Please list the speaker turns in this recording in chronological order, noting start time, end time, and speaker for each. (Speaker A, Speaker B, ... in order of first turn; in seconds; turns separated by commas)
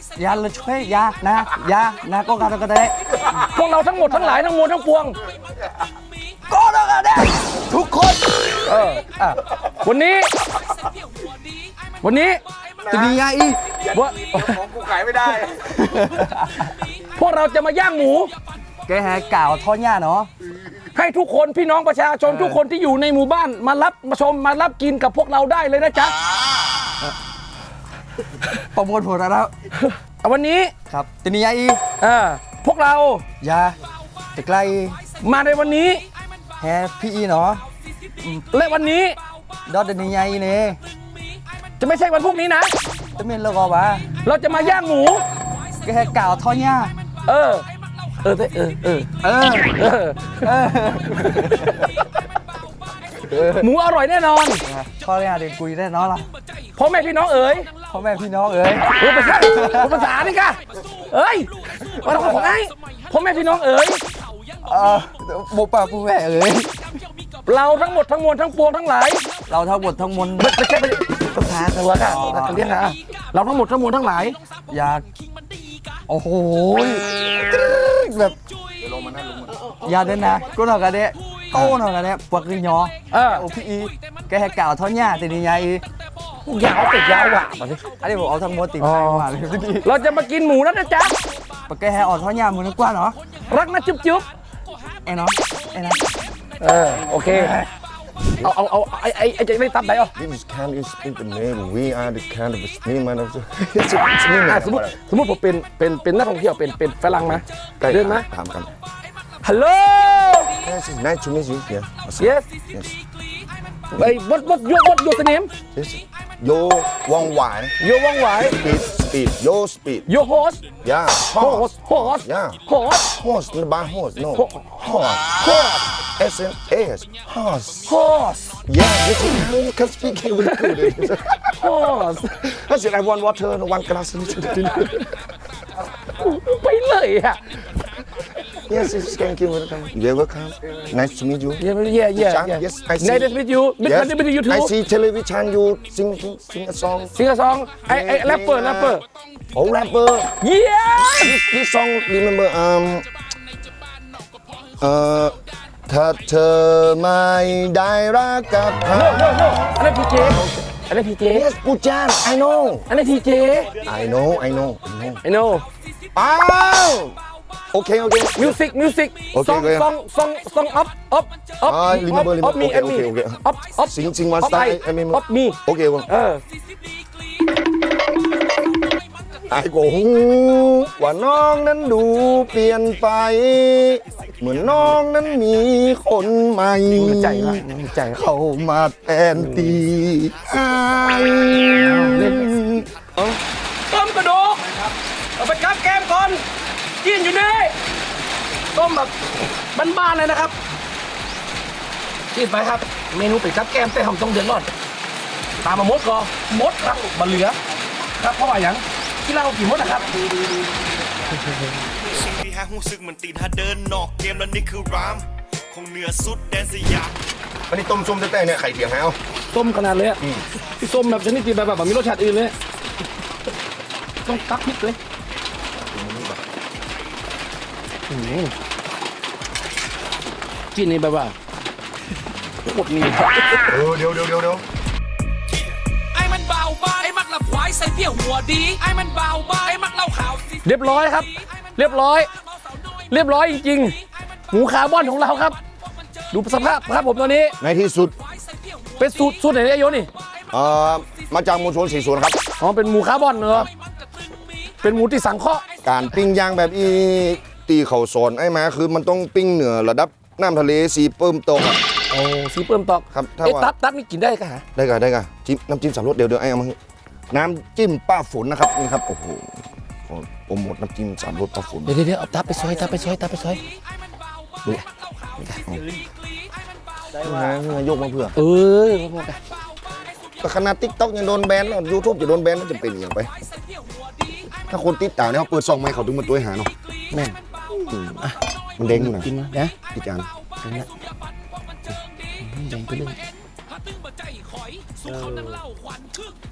Speaker A: 0.2-3.1, Speaker B: 3.3-5.2, Speaker C: 5.3-5.9, Speaker A: 6.5-9.4, Speaker B: 8.7-9.1, Speaker B: 9.8-10.3, Speaker B: 12.0-12.4, Speaker C: 12.8-13.2, Speaker A: 12.9-13.6, Speaker C: 13.7-16.3, Speaker B: 13.9-14.6, Speaker A: 15.7-16.7, Speaker B: 17.0-18.3, Speaker A: 18.9-20.3, Speaker B: 20.9-26.1, Speaker A: 22.3-22.6, Speaker A: 28.7-29.5, Speaker B: 29.8-30.7, Speaker A: 30.9-31.8, Speaker B: 32.0-33.2, Speaker A: 33.4-33.8, Speaker A: 34.4-35.0, Speaker B: 35.2-36.0, Speaker A: 36.6-37.6, Speaker B: 38.5-39.2, Speaker A: 39.7-40.8, Speaker B: 41.8-42.7, Speaker A: 43.2-44.1, Speaker B: 44.2-45.2, Speaker A: 45.8-46.9, Speaker B: 47.3-47.7, Speaker B: 48.2-50.5, Speaker A: 49.2-49.8, Speaker A: 50.4-51.9, Speaker B: 51.2-51.9, Speaker A: 53.2-53.7, Speaker B: 53.6-54.6, Speaker A: 54.7-56.3, Speaker B: 56.8-57.7, Speaker A: 57.9-60.1, Speaker B: 58.9-64.0, Speaker A: 62.1-62.5, Speaker A: 64.7-66.8, Speaker B: 67.5-69.3, Speaker A: 69.5-70.6, Speaker B: 70.4-74.4, Speaker A: 72.0-72.7, Speaker A: 74.7-75.0, Speaker A: 76.1-78.3, Speaker C: 78.8-79.8, Speaker A: 79.8-85.8, Speaker B: 83.1-83.5, Speaker B: 86.5-87.8, Speaker A: 88.0-89.9, Speaker B: 88.8-89.3, Speaker B: 89.8-91.2, Speaker A: 91.7-93.2, Speaker B: 93.5-94.3, Speaker A: 95.1-96.1, Speaker B: 96.6-97.6, Speaker A: 97.2-97.7, Speaker B: 98.4-100.1, Speaker C: 100.2-105.0, Speaker B: 104.4-108.3, Speaker C: 107.2-108.7, Speaker B: 109.4-110.6, Speaker C: 110.6-113.0, Speaker B: 112.2-112.5, Speaker B: 113.9-115.5, Speaker C: 115.7-117.8, Speaker B: 117.8-118.6, Speaker C: 118.4-120.1, Speaker B: 120.1-120.6, Speaker C: 120.8-128.0, Speaker B: 121.3-123.1, Speaker B: 124.4-125.8, Speaker B: 127.9-128.6, Speaker C: 128.7-135.1, Speaker B: 130.4-131.0, Speaker B: 131.6-132.5, Speaker B: 134.8-135.0, Speaker B: 136.1-137.4, Speaker C: 138.7-147.2, Speaker B: 141.6-144.7, Speaker B: 147.2-149.0, Speaker C: 147.9-149.0, Speaker C: 149.5-150.3, Speaker B: 150.4-151.4, Speaker C: 151.0-153.1, Speaker C: 154.8-160.6, Speaker B: 158.9-161.5, Speaker C: 161.3-162.9, Speaker B: 162.9-163.7, Speaker C: 163.8-165.2, Speaker B: 165.2-165.7, Speaker C: 166.2-167.2, Speaker C: 167.7-168.6, Speaker B: 168.4-176.4, Speaker C: 169.3-169.9, Speaker C: 171.7-176.1, Speaker C: 179.5-193.4, Speaker B: 186.9-188.3, Speaker B: 189.3-189.8, Speaker B: 191.9-192.5, Speaker B: 193.9-194.9, Speaker B: 195.4-196.4, Speaker B: 197.0-197.7, Speaker B: 198.7-199.2, Speaker B: 199.7-200.5, Speaker B: 202.3-204.7, Speaker B: 205.6-207.6, Speaker B: 208.2-210.1, Speaker D: 210.2-211.0, Speaker D: 212.2-217.1, Speaker C: 217.7-219.2, Speaker B: 219.5-220.2, Speaker B: 220.8-222.5, Speaker B: 224.2-225.0, Speaker C: 225.9-226.4, Speaker B: 228.1-228.5, Speaker B: 230.7-231.3, Speaker B: 232.6-233.7, Speaker C: 233.7-234.6, Speaker E: 236.1-240.6, Speaker B: 240.7-242.3, Speaker B: 243.1-244.0, Speaker B: 244.5-245.6, Speaker B: 246.3-247.6, Speaker C: 247.6-248.2, Speaker B: 249.0-250.1, Speaker C: 250.5-252.4, Speaker B: 252.6-253.7, Speaker B: 254.8-255.7, Speaker C: 255.8-261.8, Speaker B: 262.1-264.6, Speaker C: 263.1-263.7, Speaker C: 264.8-266.8, Speaker C: 267.3-271.9, Speaker B: 271.9-273.6, Speaker D: 272.6-273.2, Speaker B: 275.4-275.6, Speaker D: 275.7-276.0, Speaker D: 277.1-277.6, Speaker C: 277.2-278.4, Speaker B: 278.4-279.4, Speaker C: 280.4-283.3, Speaker C: 284.7-286.7, Speaker B: 287.1-287.4, Speaker C: 287.7-288.2, Speaker C: 288.8-289.3, Speaker B: 288.9-289.7, Speaker C: 289.9-290.3, Speaker B: 290.6-290.9, Speaker B: 292.4-293.2, Speaker D: 295.0-295.7